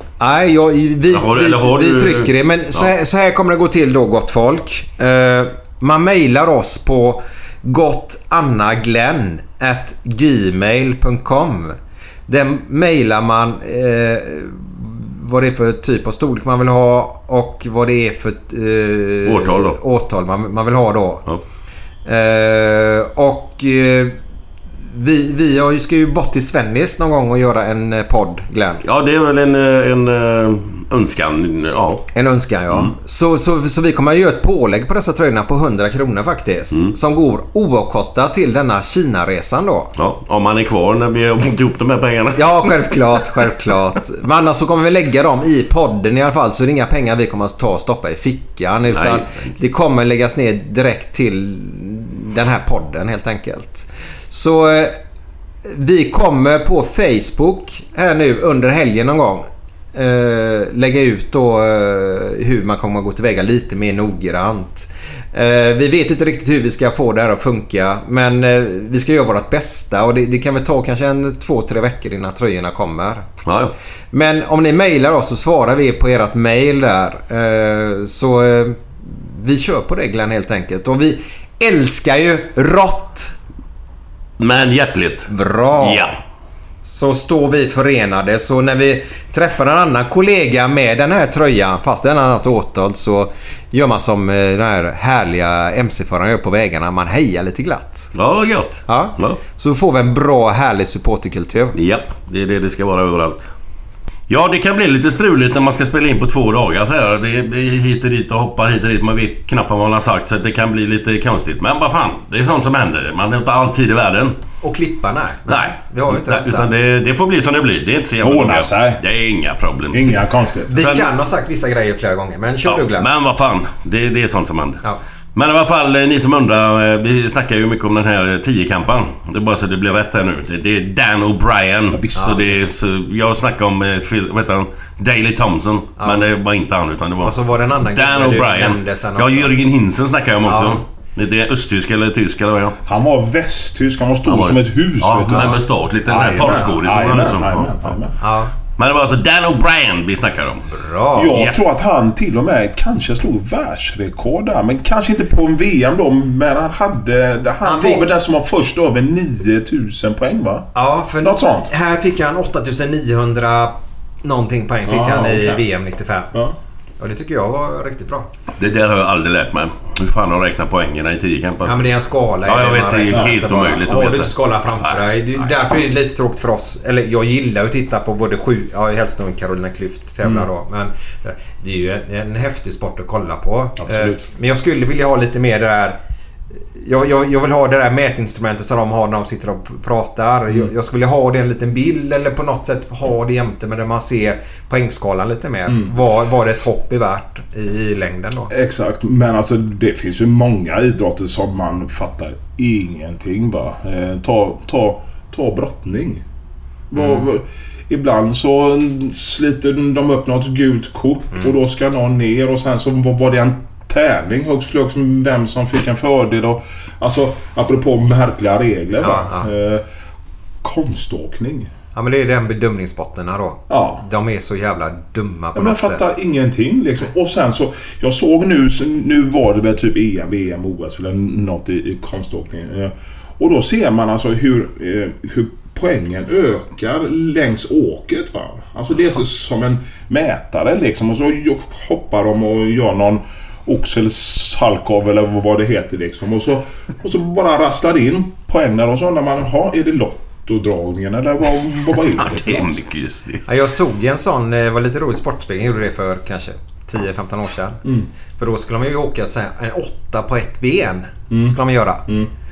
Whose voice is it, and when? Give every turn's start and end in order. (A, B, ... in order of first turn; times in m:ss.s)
0:00.2-0:21.3 A
0:01.1-0:02.9 B
0:19.2-0:19.8 B
0:22.1-0:24.2 A
0:24.9-0:28.8 A
0:28.8-0:32.1 B
0:32.2-0:39.9 A
0:40.0-0:42.7 B
0:42.4-0:55.0 A
0:48.9-0:49.6 B
0:55.6-1:13.3 A
1:13.4-1:13.8 B
1:14.1-1:23.4 A
1:24.4-1:26.2 B
1:25.3-1:26.1 A
1:26.8-1:38.1 A
1:38.1-1:39.4 B
1:38.9-1:41.8 A
1:41.7-1:43.5 B
1:44.3-1:54.4 B
1:54.6-1:56.7 A
1:55.5-2:00.2 B
1:58.2-1:59.0 C
1:59.9-2:00.7 C
2:00.7-2:01.1 B
2:00.7-2:03.1 A
2:02.6-2:17.4 B
2:11.9-2:12.5 C
2:12.2-2:12.4 A
2:17.2-2:19.5 A
2:17.9-2:22.8 B
2:20.5-2:20.8 A
2:22.9-2:28.2 C
2:24.3-2:28.0 B
2:28.2-2:28.5 A
2:28.8-2:30.7 B
2:30.7-2:31.4 A
2:31.1-2:41.7 C
2:37.6-2:38.1 A
2:40.8-2:46.3 A
2:44.8-2:45.6 C
2:47.0-2:48.3 A
2:48.6-2:51.9 B
2:51.6-3:06.0 A
2:52.4-2:55.5 B
2:53.1-2:53.4 C
3:00.2-3:00.5 C
3:03.8-3:04.2 C
3:06.8-3:18.5 A
3:15.7-3:16.0 C
3:18.5-3:26.2 C
3:26.9-3:39.8 C
3:27.0-3:27.3 A
3:39.0-3:39.5 A
3:40.6-3:41.7 C
3:42.0-3:46.2 A
3:43.7-3:44.0 C
3:45.5-4:12.8 C
4:12.1-4:13.4 B
4:13.5-4:17.8 A
4:18.4-4:22.1 A
4:21.3-4:22.3 C